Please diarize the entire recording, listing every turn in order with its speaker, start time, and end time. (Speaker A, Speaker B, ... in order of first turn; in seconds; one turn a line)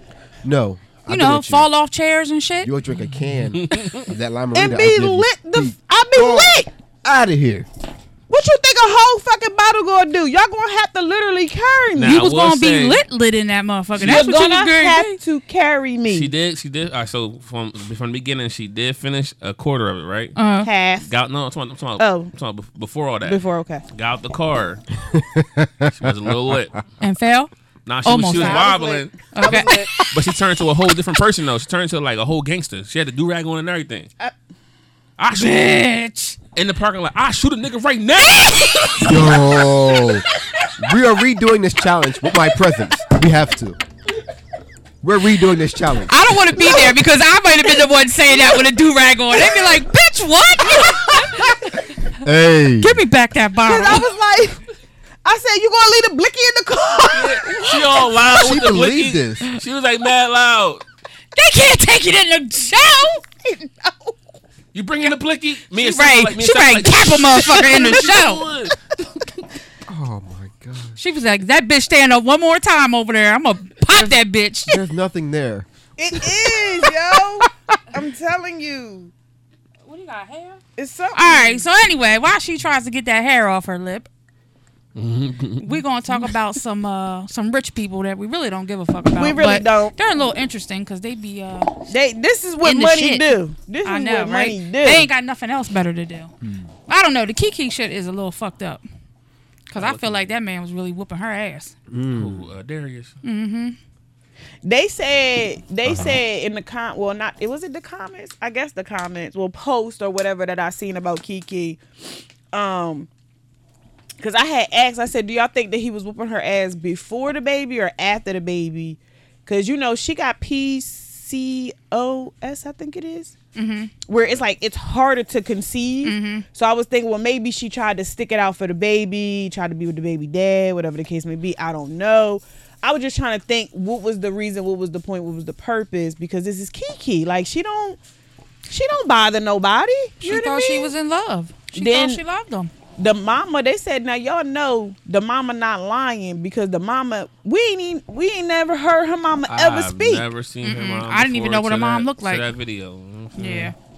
Speaker A: 0.4-1.7
Speaker B: 1.1-2.7
Speaker A: 2.6-7.7
Speaker C: 3.5-4.1
Speaker D: 4.5-6.7
Speaker D: 8.3-12.2
Speaker C: 11.9-13.0
Speaker B: 12.1-15.2
Speaker C: 14.0-14.2
Speaker D: 14.0-16.3
Speaker C: 16.1-20.4
Speaker B: 20.4-20.7
Speaker D: 20.6-21.1
Speaker C: 21.0-24.8
Speaker D: 22.0-22.3
Speaker D: 23.2-23.8
Speaker A: 25.1-26.1
Speaker C: 25.9-26.8
Speaker B: 27.0-27.5
Speaker C: 27.9-29.1
Speaker B: 28.0-28.7
Speaker D: 28.3-29.9
Speaker B: 29.3-29.8
Speaker A: 29.4-29.9
Speaker C: 30.1-34.1
Speaker C: 35.2-35.5
Speaker B: 35.3-36.4
Speaker C: 36.5-39.5
Speaker A: 39.0-40.2
Speaker A: 40.8-43.8
Speaker A: 45.0-46.8
Speaker B: 46.1-52.1
Speaker A: 52.2-53.0
Speaker B: 52.8-54.1
Speaker D: 53.6-54.6
Speaker D: 55.2-57.7
Speaker C: 57.1-60.8
Speaker A: 58.2-59.5
Speaker B: 61.3-63.5
Speaker D: 63.8-64.1
Speaker C: 64.7-68.8
Speaker B: 65.8-68.5
Speaker A: 69.9-71.0
Speaker B: 71.0-74.8
Speaker A: 74.7-75.7
Speaker D: 76.0-79.1
Speaker B: 79.8-80.6
Speaker D: 80.8-81.7
Speaker B: 81.1-84.1
Speaker C: 84.9-86.2
Speaker B: 85.6-91.8
Speaker D: 89.1-89.9
Speaker D: 91.9-95.1
Speaker B: 92.6-96.3
Speaker B: 96.9-98.8
Speaker B: 99.7-101.7
Speaker C: 99.7-100.3
Speaker A: 101.9-102.5
Speaker C: 102.1-103.2
Speaker B: 103.2-103.8
Speaker D: 104.6-111.8
Speaker A: 105.8-106.2
Speaker D: 112.5-113.1
Speaker D: 114.2-123.3
Speaker B: 123.5-123.9
Speaker D: 124.1-138.0
Speaker B: 126.0-126.5
Speaker D: 138.7-140.9
Speaker B: 140.2-142.7
Speaker D: 141.7-142.2
Speaker D: 143.0-150.2
Speaker C: 149.5-153.7
Speaker B: 150.6-152.5
Speaker B: 153.3-153.7